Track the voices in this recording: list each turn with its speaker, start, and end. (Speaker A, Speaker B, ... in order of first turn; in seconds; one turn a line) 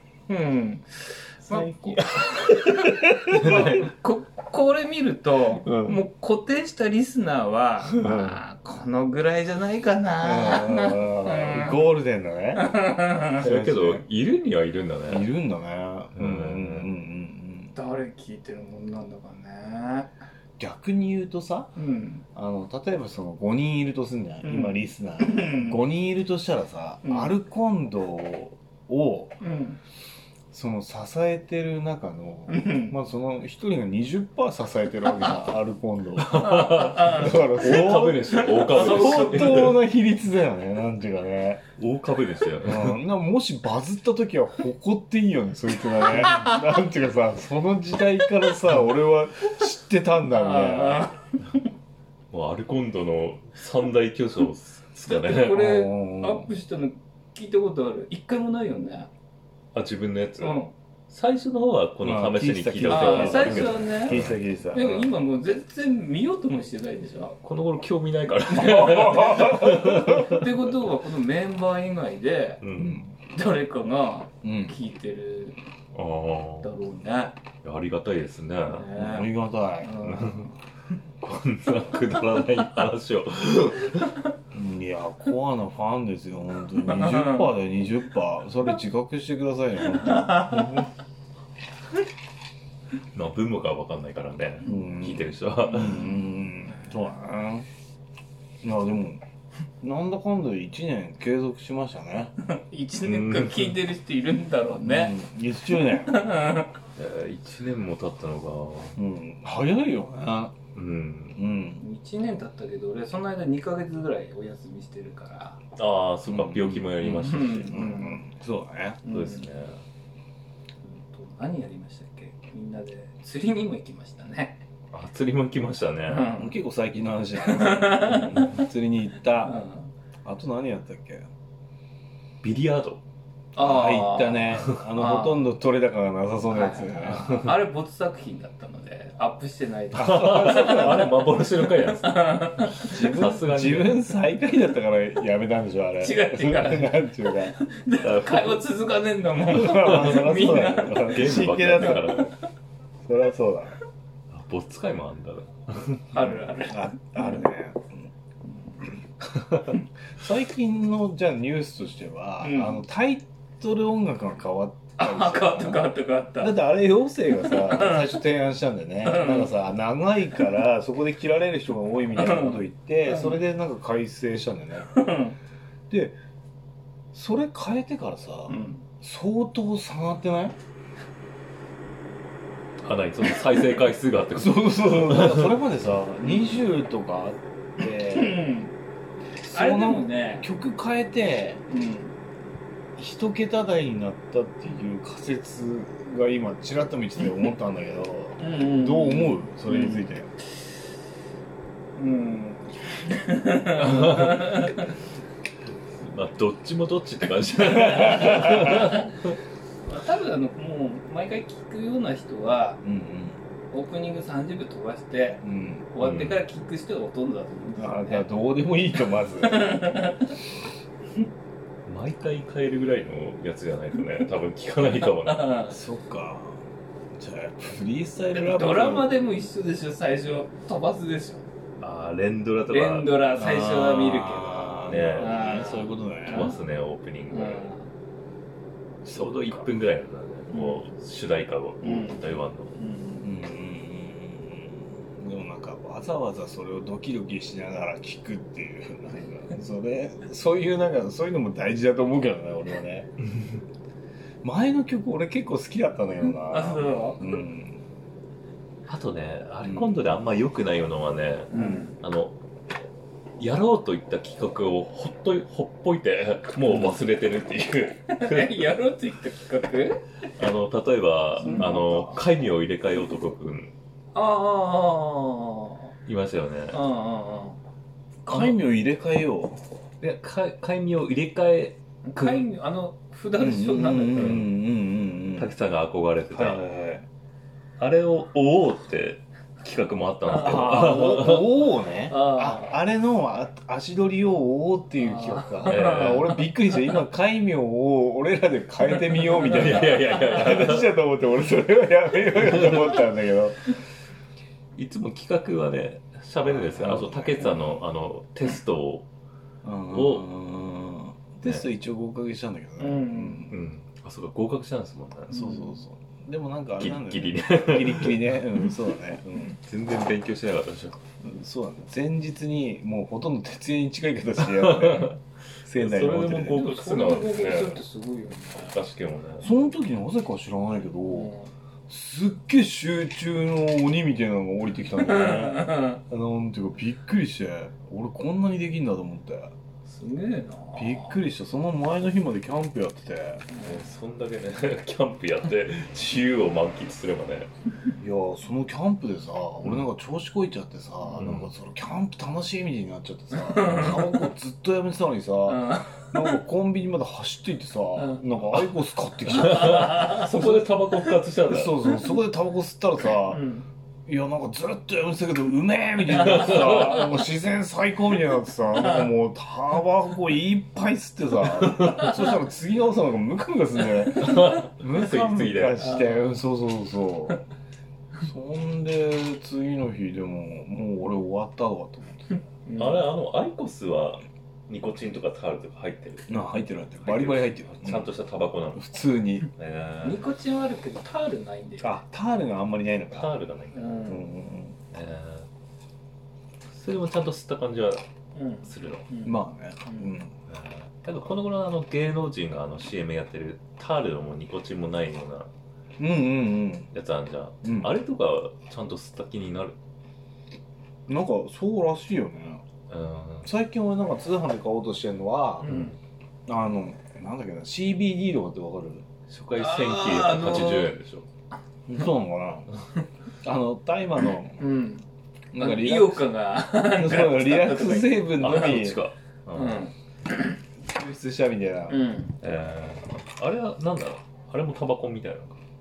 Speaker A: 0.3-11.8
Speaker B: 1.4-3.9
Speaker C: 3.4-3.7
Speaker B: 5.6-6.0
Speaker B: 7.9-8.4
Speaker B: 10.2-12.7
Speaker A: 12.6-13.4
Speaker B: 13.4-14.0
Speaker C: 13.4-15.3
Speaker B: 15.1-17.7
Speaker C: 16.1-16.9
Speaker A: 17.7-20.1
Speaker B: 20.6-21.7
Speaker A: 21.8-22.2
Speaker B: 22.3-29.4
Speaker A: 24.4-25.8
Speaker A: 27.0-27.3
Speaker A: 29.4-29.8
Speaker B: 30.5-41.6
Speaker A: 32.5-33.0
Speaker C: 36.2-39.8
Speaker A: 36.3-39.7
Speaker C: 41.8-43.0
Speaker B: 42.6-51.1
Speaker A: 46.2-46.5
Speaker A: 50.3-51.5
Speaker C: 52.3-55.6
Speaker A: 55.1-59.1
Speaker B: 55.5-56.5
Speaker C: 59.7-64.4
Speaker A: 60.4-60.7
Speaker B: 62.0-65.1
Speaker A: 62.9-64.2
Speaker A: 64.7-67.4
Speaker C: 67.4-70.5
Speaker B: 68.5-70.3
Speaker A: 69.1-72.6
Speaker C: 72.6-73.0
Speaker B: 72.8-73.1
Speaker A: 73.3-75.6
Speaker B: 74.4-74.7
Speaker C: 75.9-76.7
Speaker A: 76.6-77.4
Speaker C: 77.6-78.9
Speaker A: 78.7-79.3
Speaker B: 78.9-80.0
Speaker A: 79.8-80.5
Speaker C: 80.0-80.5
Speaker C: 81.2-84.2
Speaker B: 84.5-90.9
Speaker A: 86.9-87.5
Speaker A: 90.0-90.8
Speaker C: 93.1-96.1
Speaker B: 94.6-97.7
Speaker B: 98.6-99.2
Speaker B: 99.8-102.3
Speaker A: 102.4-105.2
Speaker C: 103.0-103.8
Speaker B: 104.8-106.1
Speaker A: 105.8-106.7
Speaker C: 107.0-109.0
Speaker B: 109.0-110.5
Speaker C: 110.7-111.4
Speaker B: 111.3-111.8
Speaker A: 111.8-115.6
Speaker C: 115.8-117.9
Speaker B: 116.2-119.0
Speaker A: 117.0-118.2
Speaker A: 119.0-119.5
Speaker C: 119.1-119.8
Speaker A: 120.8-124.6
Speaker C: 124.9-126.3
Speaker A: 126.1-126.5
Speaker B: 126.4-129.6
Speaker A: 127.4-128.6
Speaker A: 129.4-129.9
Speaker B: 130.2-131.3
Speaker C: 132.4-133.0
Speaker A: 133.5-135.4
Speaker B: 133.6-137.3
Speaker A: 136.5-143.0
Speaker C: 137.2-137.5
Speaker B: 139.9-141.1
Speaker C: 139.9-144.1
Speaker B: 142.9-147.6
Speaker A: 146.0-151.2
Speaker C: 148.0-148.6
Speaker B: 149.5-152.1
Speaker C: 149.8-152.3
Speaker A: 151.8-152.3
Speaker B: 153.0-153.8
Speaker C: 154.3-156.1
Speaker A: 156.1-157.4
Speaker B: 156.2-158.1
Speaker B: 160.1-165.8
Speaker A: 162.4-162.8
Speaker A: 165.0-166.6
Speaker B: 166.4-174.9
Speaker A: 167.3-168.2
Speaker A: 169.0-169.5
Speaker A: 172.1-173.4
Speaker A: 174.9-175.3
Speaker B: 175.9-176.2
Speaker B: 177.1-180.6
Speaker A: 178.5-178.8
Speaker C: 182.8-185.6
Speaker B: 184.3-188.4
Speaker A: 186.2-186.6
Speaker A: 188.0-188.8
Speaker B: 189.4-191.6
Speaker A: 189.5-190.5
Speaker A: 191.7-192.1
Speaker B: 192.9-200.3
Speaker A: 198.4-200.1
Speaker A: 201.9-204.9
Speaker C: 203.8-204.8
Speaker C: 206.0-209.4
Speaker B: 208.0-208.9
Speaker A: 208.5-209.0
Speaker A: 209.9-212.8
Speaker B: 212.8-213.4
Speaker A: 213.7-218.3
Speaker B: 215.4-215.9
Speaker C: 216.0-216.4
Speaker B: 217.8-219.9
Speaker A: 219.4-220.4
Speaker C: 221.9-225.6
Speaker A: 225.0-225.8
Speaker B: 225.7-229.1
Speaker A: 228.3-231.4
Speaker C: 231.8-233.1
Speaker A: 232.7-236.6
Speaker B: 233.3-236.5
Speaker C: 234.9-235.4
Speaker C: 236.3-237.7
Speaker A: 237.3-237.9
Speaker B: 239.0-239.7
Speaker C: 239.1-242.7
Speaker A: 240.5-240.9
Speaker A: 241.8-243.3
Speaker B: 243.2-253.1
Speaker C: 253.2-253.6
Speaker B: 254.4-257.8
Speaker A: 256.2-257.4
Speaker C: 258.9-262.4
Speaker B: 259.6-260.0
Speaker A: 261.5-261.9
Speaker C: 263.4-268.8
Speaker B: 266.7-267.0
Speaker A: 268.1-270.1
Speaker C: 270.4-273.7
Speaker A: 271.4-271.7
Speaker B: 271.4-272.2
Speaker A: 274.1-275.9
Speaker C: 276.1-276.8
Speaker A: 276.7-277.6
Speaker B: 278.2-279.6
Speaker C: 278.3-278.6
Speaker C: 280.0-282.5
Speaker A: 282.1-284.3
Speaker B: 283.4-285.5
Speaker C: 284.1-284.5
Speaker C: 285.4-286.6
Speaker B: 286.3-287.0
Speaker C: 287.8-291.6
Speaker B: 290.4-303.7
Speaker A: 290.5-291.1
Speaker A: 292.1-292.8
Speaker A: 295.0-296.8
Speaker C: 295.7-296.4
Speaker A: 299.1-300.4
Speaker C: 299.4-300.9
Speaker C: 302.4-302.9
Speaker C: 304.8-309.1
Speaker B: 306.4-307.8
Speaker B: 309.6-313.6
Speaker C: 309.9-310.2
Speaker A: 312.8-313.5
Speaker C: 313.5-315.4
Speaker A: 315.3-315.8
Speaker B: 315.3-319.6
Speaker C: 316.8-318.8
Speaker C: 319.6-321.0
Speaker B: 321.2-325.1
Speaker C: 324.4-325.2
Speaker B: 325.6-326.6
Speaker C: 325.8-327.8
Speaker A: 326.5-328.8
Speaker C: 328.7-329.5
Speaker B: 329.4-331.3
Speaker A: 331.1-331.5
Speaker B: 331.9-339.5
Speaker A: 335.0-336.0
Speaker A: 339.9-341.1
Speaker B: 340.8-343.4
Speaker A: 343.5-343.8
Speaker C: 343.6-347.5
Speaker B: 348.0-360.6
Speaker C: 351.2-351.5
Speaker A: 353.4-354.3
Speaker A: 355.5-356.4
Speaker C: 359.4-361.9
Speaker A: 359.4-360.6
Speaker B: 361.5-363.4
Speaker A: 363.3-363.6
Speaker B: 364.1-377.4
Speaker C: 366.1-367.1
Speaker A: 366.3-366.8
Speaker C: 371.6-372.1
Speaker C: 374.1-375.8
Speaker A: 375.8-376.2
Speaker B: 378.2-382.3
Speaker A: 382.6-383.1
Speaker C: 382.8-386.4
Speaker B: 386.3-388.1
Speaker C: 387.0-388.8
Speaker B: 388.8-389.5
Speaker C: 389.6-390.2
Speaker A: 390.0-392.0
Speaker B: 391.8-393.3
Speaker C: 393.1-394.0
Speaker A: 393.7-394.3
Speaker B: 394.1-394.8
Speaker C: 394.9-395.5
Speaker C: 396.7-398.0
Speaker A: 398.4-400.1
Speaker C: 398.6-399.1
Speaker B: 399.2-400.4
Speaker C: 400.5-405.5
Speaker B: 406.0-406.9
Speaker C: 406.9-409.8
Speaker B: 407.6-407.9
Speaker B: 411.1-412.6
Speaker C: 412.9-413.5
Speaker B: 413.4-415.7
Speaker A: 415.6-415.9
Speaker C: 415.6-415.9
Speaker B: 416.5-419.1
Speaker C: 419.3-421.3
Speaker A: 419.6-420.9
Speaker B: 421.9-422.7
Speaker B: 423.4-424.6
Speaker A: 424.6-425.1
Speaker B: 425.5-426.3
Speaker A: 425.6-428.9
Speaker B: 426.8-429.0
Speaker C: 428.4-429.9
Speaker A: 429.5-429.9
Speaker B: 430.8-432.0
Speaker A: 431.9-432.4
Speaker C: 432.4-435.6